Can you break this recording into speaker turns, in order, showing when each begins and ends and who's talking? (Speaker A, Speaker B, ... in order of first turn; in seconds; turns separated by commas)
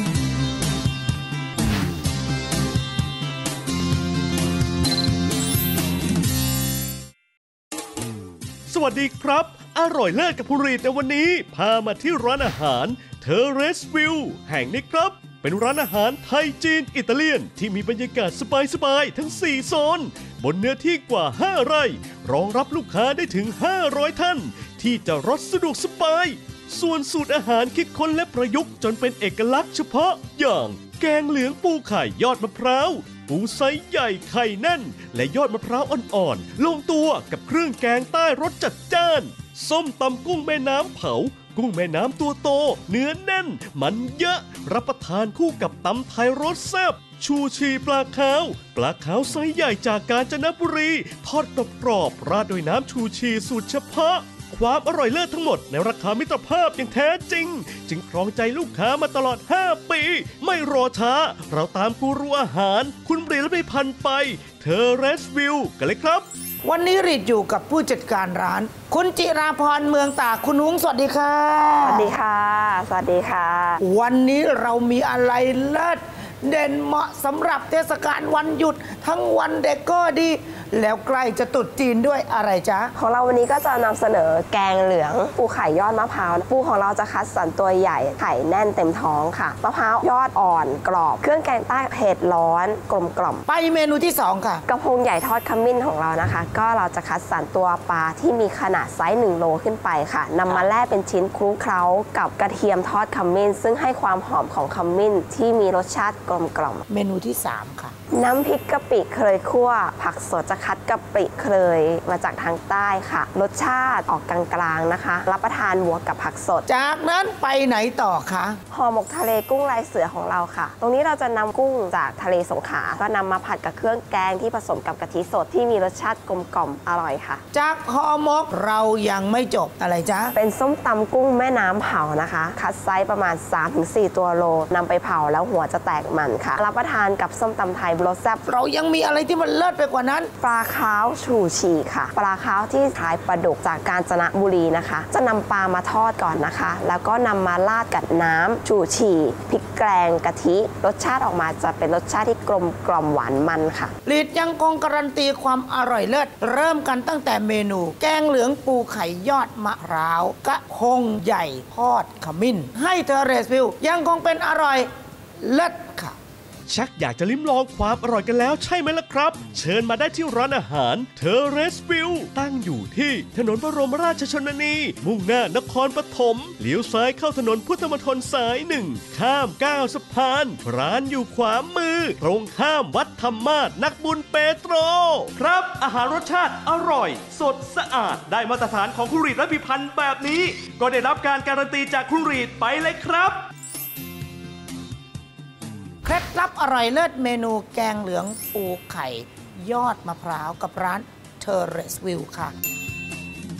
Speaker A: 8.7-66.2, Speaker B: 66.6-72.1, Speaker C: 71.8-73.8, Speaker B: 73.8-82.9, Speaker C: 82.9-93.4, Speaker B: 93.5-94.6, Speaker C: 94.7-106.8, Speaker B: 106.9-107.9, Speaker C: 108.1-116.7, Speaker B: 116.7-118.6, Speaker C: 118.7-127.4, Speaker B: 127.5-130.3, Speaker C: 130.3-138.4, Speaker B: 138.4-140.3, Speaker C: 140.4-153.9, Speaker B: 154.0-164.9, Speaker B: 165.4-166.2, Speaker A: 166.7-193.4, Speaker B: 196.0-202.5